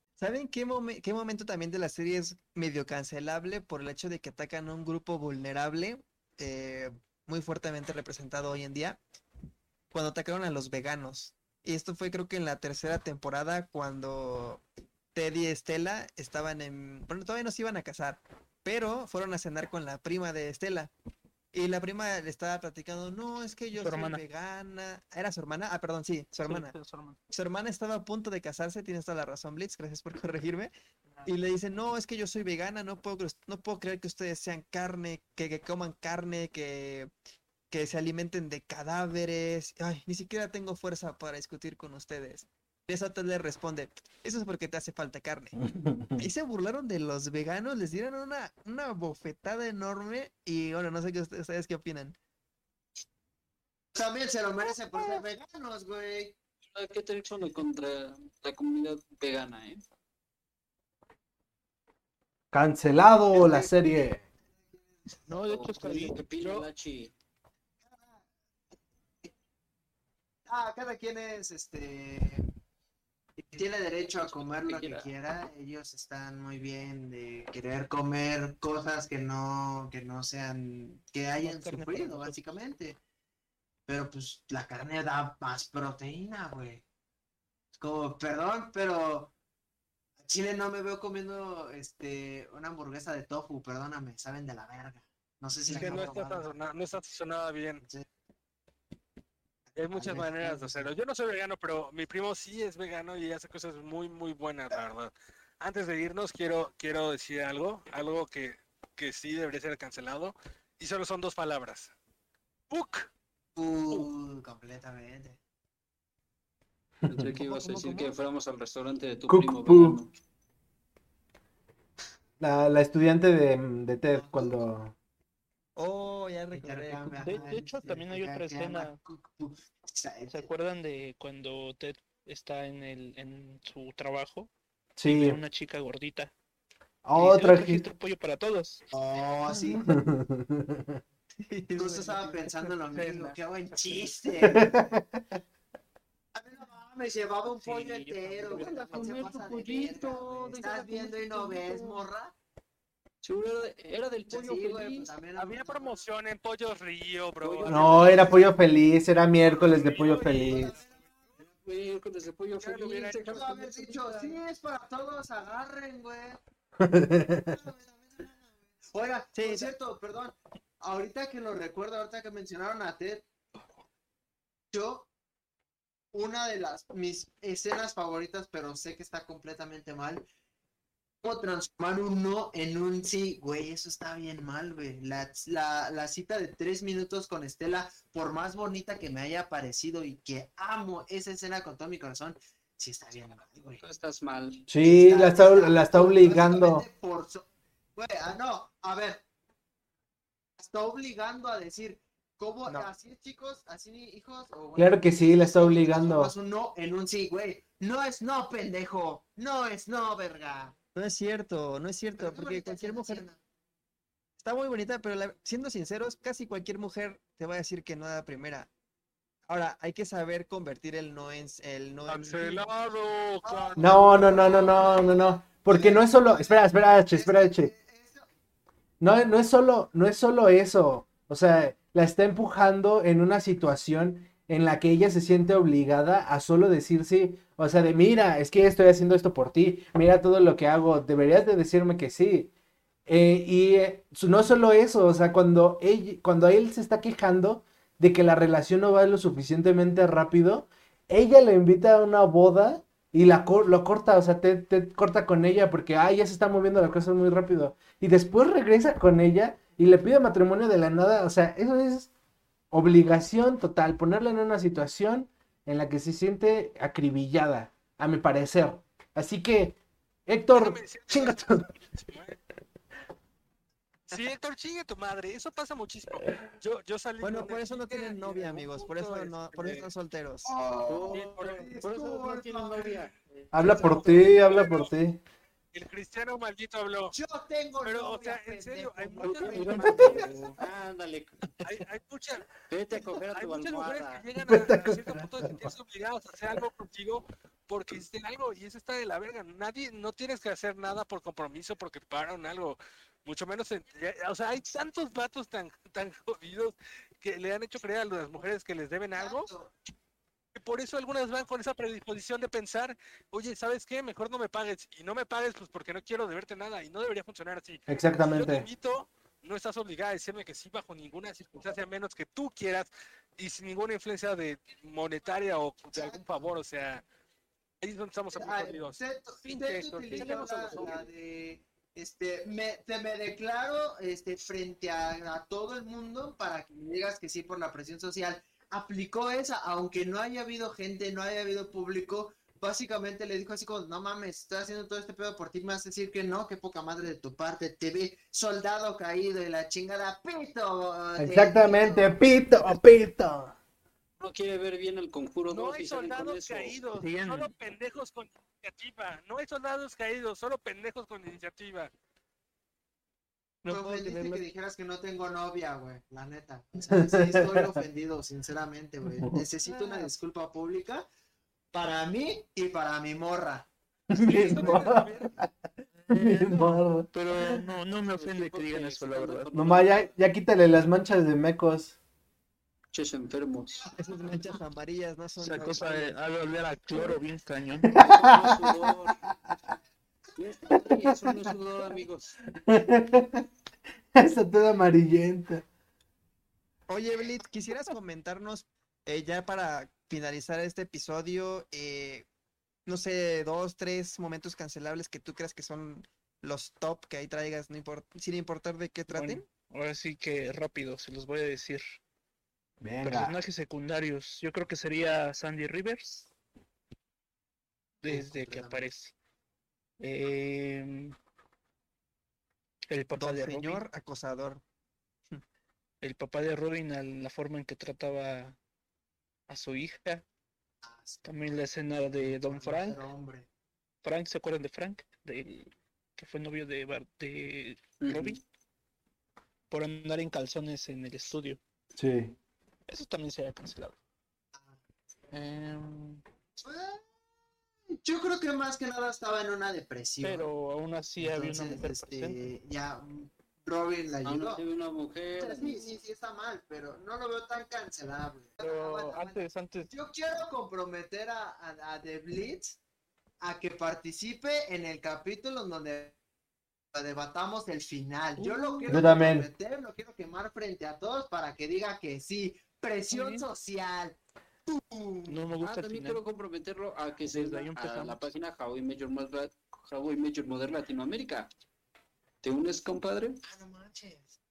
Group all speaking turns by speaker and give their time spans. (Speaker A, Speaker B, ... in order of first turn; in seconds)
Speaker A: 0.2-9.0, 9.9-20.9, 21.5-26.8, 27.3-30.7, 31.2-37.1, 37.7-45.5, 46.2-52.1, 125.8-127.5, 141.4-142.7, 169.3-169.7, 202.6-202.9, 210.9-213.3, 214.4-218.7, 219.5-222.6, 277.2-280.5, 383.9-386.2, 396.9-402.3, 402.9-409.4, 423.1-424.6
Speaker B: 23.8-24.2, 26.4-27.2, 65.3-66.2, 81.4-82.5, 127.2-129.0, 130.3-134.5, 135.1-136.3, 137.1-138.8, 142.9-143.3, 147.5-149.5, 289.2-290.6, 357.0-357.5, 376.1-379.5, 385.4-388.1, 409.1-412.0, 413.0-416.3, 418.0-419.1, 420.0-421.1, 422.9-423.8, 426.0-428.6, 429.5-430.2, 431.2-433.0, 434.0-438.4, 439.7-441.6, 442.9-444.0, 445.3-446.2, 450.2-452.4, 458.6-459.9, 468.4-469.1, 473.1-473.4, 475.3-476.2, 477.3-478.3
Speaker C: 45.6-46.1, 62.5-64.2, 117.0-117.3, 119.3-120.0, 122.4-124.9, 135.0-135.4, 137.0-137.8, 139.7-141.0, 144.4-145.2, 157.7-160.7, 166.8-167.6, 194.7-196.8, 204.8-206.3, 223.8-227.7, 229.0-242.5, 243.1-262.1, 262.7-269.8, 270.3-271.7, 283.5-285.2, 294.4-295.6, 317.9-318.7, 351.2-353.6, 363.6-364.4, 366.9-367.7, 369.1-370.1, 374.1-375.5, 376.1-377.6, 379.5-381.9, 387.9-388.7, 390.9-391.4, 392.6-393.4, 394.1-395.6, 412.8-413.4, 442.0-442.3, 468.9-469.5
Speaker D: 53.9-56.4, 63.3-64.1, 70.5-72.4, 73.5-83.0, 83.9-86.8, 87.7-89.3, 90.2-96.5, 99.9-100.9, 113.5-115.4, 124.1-124.6, 126.5-130.5, 138.9-139.9, 141.8-144.9, 146.3-152.3, 154.3-156.0, 157.8-158.5, 160.1-161.0, 163.2-166.4, 167.4-173.2, 174.7-175.1, 176.1-180.2, 181.2-193.8, 194.8-199.2, 200.6-210.7, 212.2-213.4, 223.4-228.2, 280.4-283.1, 283.6-284.1, 287.1-290.4, 309.2-309.7, 325.9-326.2, 328.3-352.1, 363.6-371.1, 371.7-375.0, 418.1-418.8, 430.8-431.5, 432.2-433.5, 446.6-447.1, 447.9-450.5, 451.2-454.6, 455.4-462.8, 463.4-466.1, 466.9-475.5, 483.4-484.3
Speaker E: 56.7-59.8, 65.4-67.1, 74.2-75.1, 95.7-96.1, 117.1-120.1, 148.5-152.0, 153.2-155.1, 157.4-158.3, 161.4-164.4, 193.7-194.7, 280.9-284.3, 289.9-291.6, 292.7-294.2, 330.1-331.1, 354.2-356.8, 378.1-380.2, 382.9-383.9, 387.9-389.3, 390.4-392.4, 438.0-438.4, 454.2-455.9, 475.6-481.5, 482.4-483.4
Speaker F: 66.3-66.7, 95.7-97.8, 99.7-111.9, 112.7-113.1, 155.3-158.3, 159.4-160.9, 162.6-163.3, 222.1-224.6, 270.5-272.4, 274.1-279.9, 281.1-281.7, 283.6-284.9, 285.7-287.1, 287.8-290.3, 291.6-292.5, 293.2-309.5, 310.5-327.0, 327.8-331.0, 355.5-361.9, 374.1-375.4